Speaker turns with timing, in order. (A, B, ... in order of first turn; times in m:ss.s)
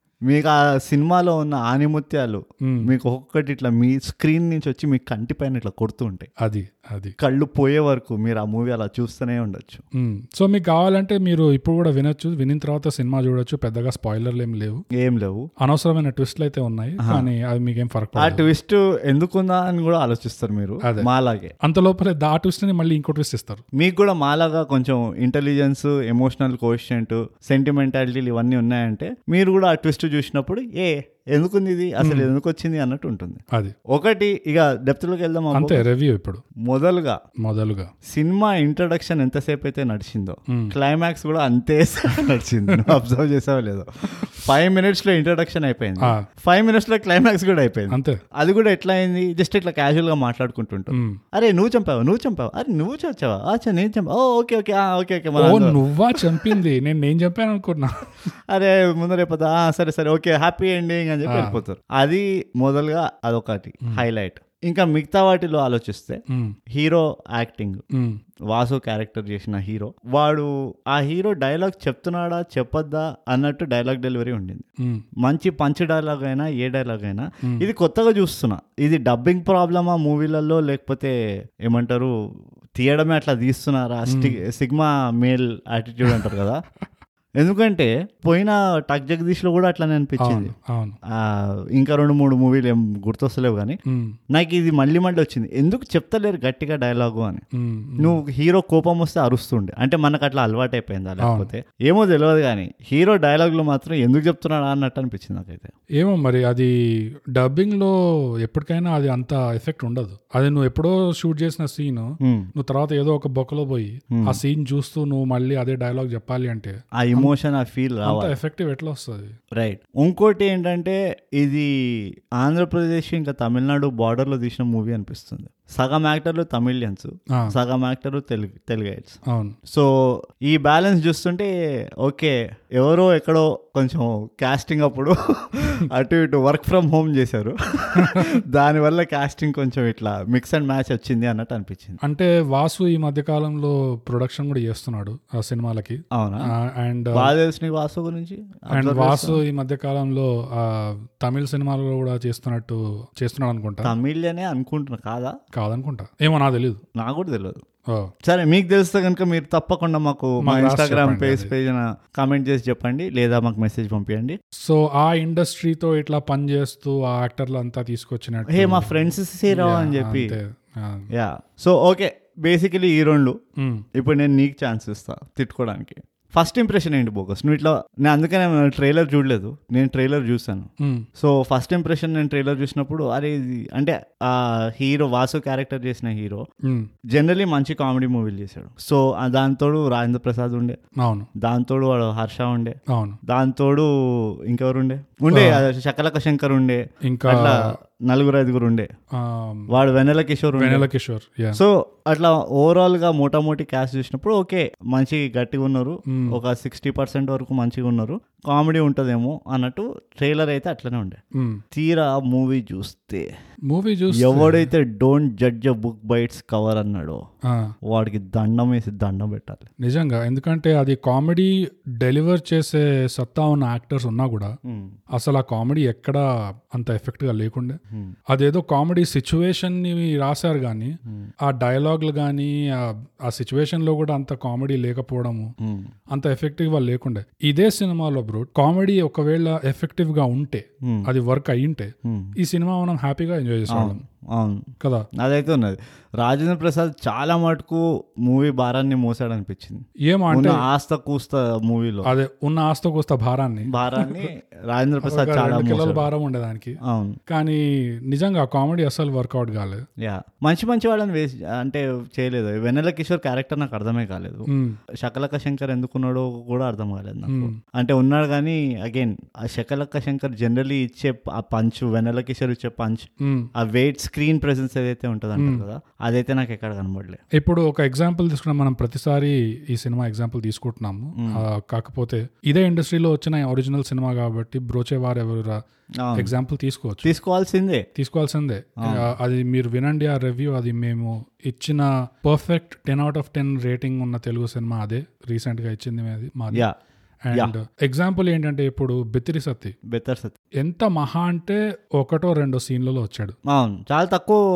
0:00.2-0:06.3 A
0:02.6-0:02.9 B
0:06.4-0:07.1 B
0:07.2-0:09.8 A
0:10.0-0:14.8 B
0:14.9-0:15.5 A
0:15.6-0:18.4 B
0:17.0-0:17.2 A
0:18.2-0:21.5 A
0:20.8-0:21.1 B
0:21.6-0:23.6 B
0:23.7-0:35.8 A
0:32.0-0:32.3 B
0:35.5-0:36.4 B
0:36.6-0:37.2 A
0:37.4-0:37.9 B
0:38.0-0:56.6 A
0:40.5-0:40.7 B
0:47.9-0:48.2 B
0:50.9-0:51.2 B
0:55.4-0:58.3 B
0:58.5-1:07.8 A
1:01.3-1:01.6 B
1:06.3-1:06.6 B
1:07.9-1:08.2 B
1:08.5-1:14.6 A
1:14.8-1:15.0 B
1:15.2-1:21.1 A
1:21.6-1:22.1 A
1:22.8-1:26.6 A
1:24.1-1:24.4 B
1:27.4-1:30.5 A
1:30.2-1:31.0 B
1:31.1-1:33.8 A
1:33.9-1:34.1 B
1:34.3-1:37.4 A
1:37.5-1:38.2 B
1:38.0-1:45.7 A
1:41.2-1:41.5 B
1:46.0-1:46.7 B
1:47.3-1:57.3 B
1:52.2-1:52.5 A
1:54.1-1:54.4 A
1:57.0-1:58.3 A
1:58.0-1:59.3 B
1:59.6-2:11.5 A
2:09.3-2:09.6 B
2:12.0-2:22.0 A
2:18.0-2:18.3 B
2:22.0-2:27.3 B
2:26.1-2:26.5 A
2:27.1-2:29.4 A
2:28.7-2:33.9 B
2:33.8-2:35.4 A
2:35.5-2:36.8 B
2:36.9-2:37.6 A
2:38.2-2:44.4 A
2:40.4-2:41.5 B
2:44.6-2:51.1 B
2:48.5-2:50.4 A
2:51.1-2:53.4 A
2:53.6-2:53.8 B
2:53.9-3:06.4 A
3:00.8-3:01.0 B
3:07.1-3:10.8 A
3:11.0-3:11.3 B
3:11.4-3:18.9 A
3:12.9-3:13.2 B
3:15.3-3:15.6 B
3:17.0-3:17.8 B
3:19.1-3:19.7 B
3:19.7-3:20.9 A
3:20.6-3:21.6 B
3:21.5-3:31.2 A
3:26.1-3:26.4 B
3:31.3-3:31.6 B
3:31.7-3:33.3 A
3:33.7-3:34.7 B
3:34.1-3:37.2 A
3:37.4-3:37.7 B
3:37.8-3:39.7 A
3:39.8-3:44.5 B
3:44.6-3:45.0 A
3:45.1-3:47.8 B
3:47.9-3:48.2 A
3:48.3-3:55.5 B
3:55.6-3:55.9 A
3:56.1-4:04.0 B
4:00.8-4:01.1 A
4:02.0-4:02.3 A
4:03.7-4:12.1 A
4:10.1-4:10.6 B
4:12.0-4:14.3 B
4:13.7-4:16.1 A
4:15.0-4:16.8 B
4:16.8-4:17.2 A
4:17.3-4:19.8 B
4:20.0-4:24.5 A
4:24.5-4:24.8 B
4:25.0-4:37.2 A
4:27.3-4:27.6 B
4:33.2-4:33.5 B
4:35.4-4:35.6 B
4:37.4-4:45.6 B
4:41.2-4:41.4 A
4:46.0-4:46.3 A
4:46.2-4:47.1 B
4:47.0-4:47.8 A
4:48.0-4:56.6 B
4:48.8-4:49.1 A
4:57.2-4:59.7 B
4:59.9-5:00.3 A
5:00.6-5:03.4 B
5:03.5-5:04.4 A